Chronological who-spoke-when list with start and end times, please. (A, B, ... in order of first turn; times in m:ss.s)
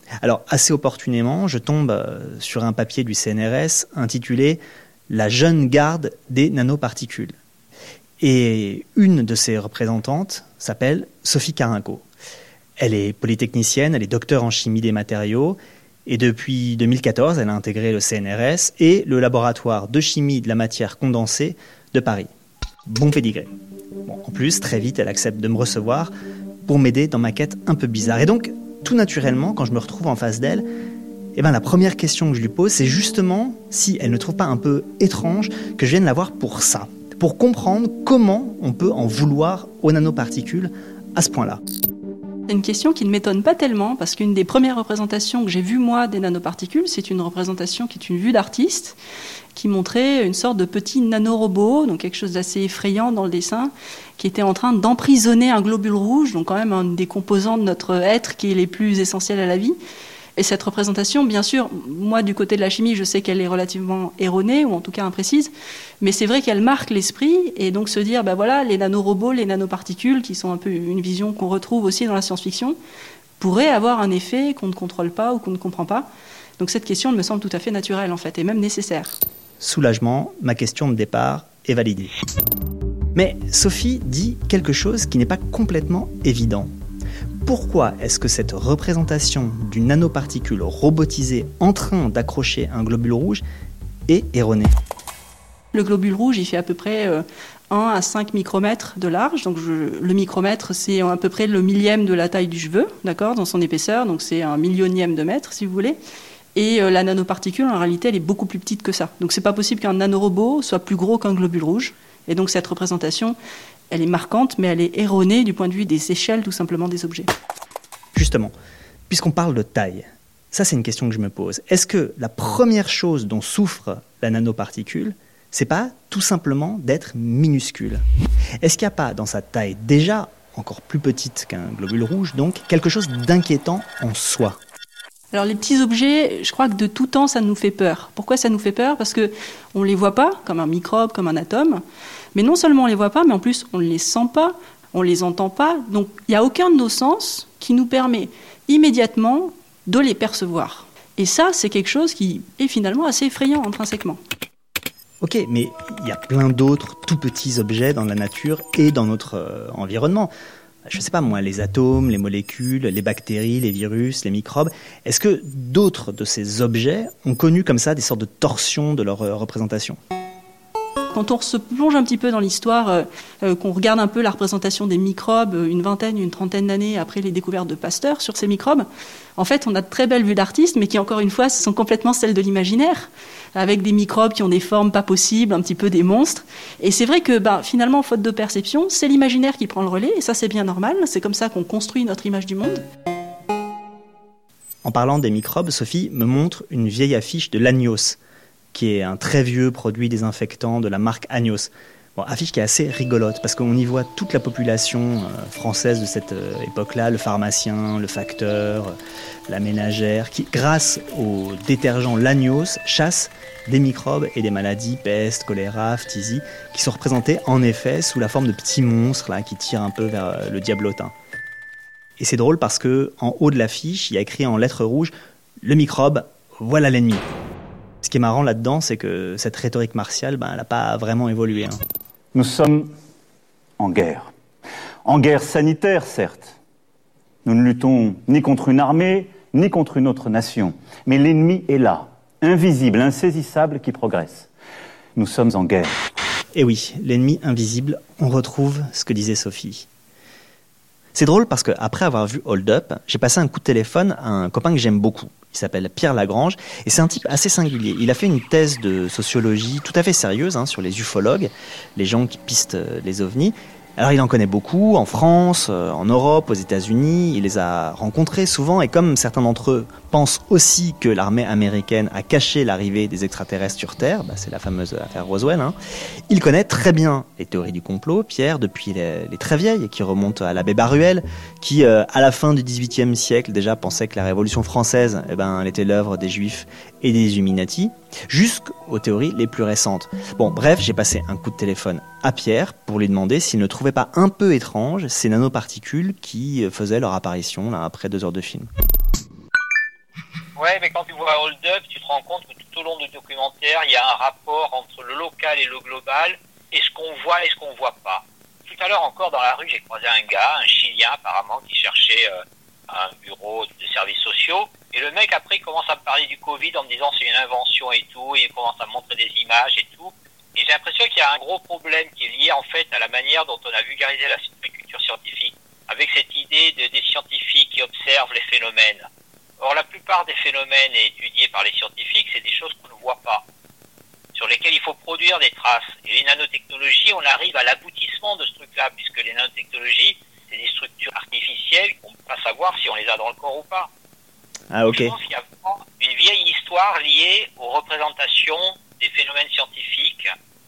0:00.2-0:07.4 A
0:08.2-0:12.0 A
0:12.8-0:22.3 A
0:22.9-0:26.1 A
0:26.7-0:30.7 A
0:31.4-0:41.6 A
0:42.5-0:49.0 B
0:49.6-0:59.8 B
1:00.4-1:12.8 B
1:13.4-1:19.2 B
1:19.6-1:22.1 A
1:23.2-1:26.7 A
1:27.4-1:33.4 A
1:34.1-1:34.8 A
1:35.7-1:46.0 B
1:46.6-1:53.4 B
1:53.9-1:57.3 B
1:58.1-1:58.5 A
1:59.1-2:08.0 A
2:08.6-2:14.6 A
2:15.3-2:21.8 B
2:22.4-2:34.2 B
2:35.2-2:40.3 A
2:40.8-2:50.0 A
2:51.1-2:58.9 B
2:59.4-3:12.8 B
3:14.8-3:18.2 A
3:18.7-3:29.0 A
3:29.5-3:41.1 A
3:42.2-3:45.1 A
3:45.6-3:47.3 A
3:48.0-3:51.8 A
3:52.3-3:52.9 C
3:53.8-3:54.3 C
3:55.0-3:56.6 C
3:57.4-4:04.5 C
4:05.2-4:05.9 C
4:06.5-4:09.9 A
4:11.1-4:35.8 A
4:36.3-4:58.7 A
5:00.6-5:29.1 D
5:29.6-5:33.4 D
5:34.4-5:43.9 D
5:44.7-5:45.2 A
5:44.9-5:50.3 D